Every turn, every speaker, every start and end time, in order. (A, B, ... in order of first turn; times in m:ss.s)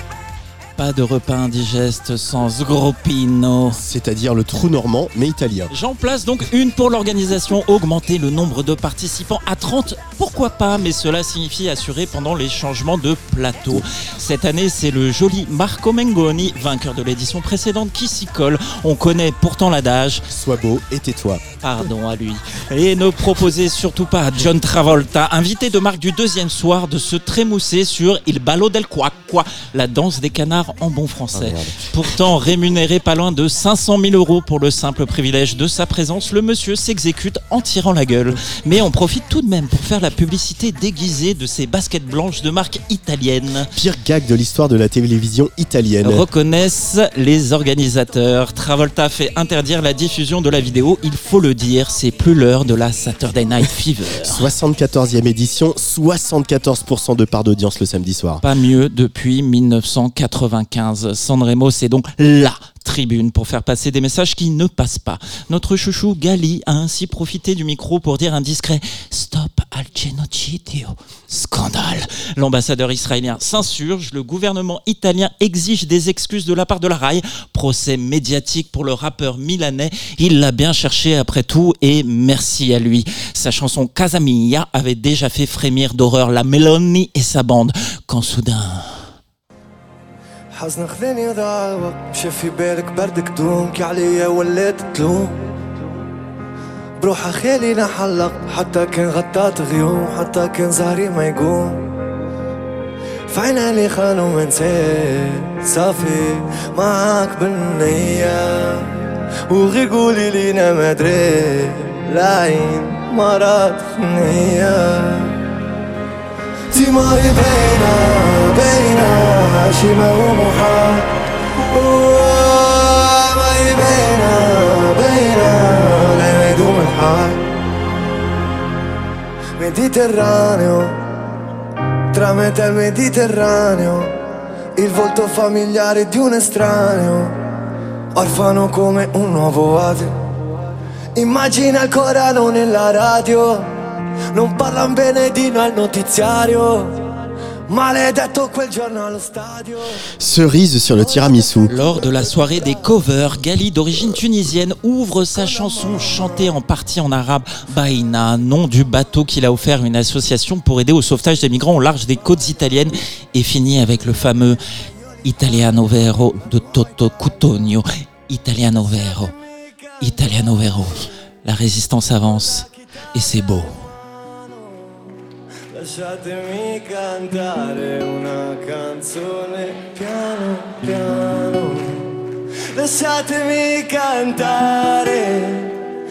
0:00.8-0:03.8 A
0:03.8-0:05.7 B
0:05.7-0:20.2 A
0:20.3-0:21.4 B
0:21.6-0:43.7 A
0:31.4-0:31.9 B
0:43.7-0:46.2 B
0:46.0-0:54.4 A
0:54.2-0:58.4 B
0:58.4-1:28.9 A
1:30.5-1:35.4 C
1:37.0-1:41.8 C
1:43.3-1:48.9 C
1:49.5-1:55.3 C
1:56.7-2:01.1 C
2:01.7-2:07.4 C
2:09.6-2:11.0 C
2:12.1-2:14.1 C
2:14.8-2:17.4 C
2:18.1-2:20.2 C
2:21.1-2:23.7 C
2:24.3-2:27.0 C
2:27.7-2:30.0 C
2:30.2-2:31.7 B
2:31.7-2:44.6 A
2:45.2-2:49.3 A
2:50.0-2:53.8 A
2:55.7-3:02.1 C
3:02.7-3:05.8 C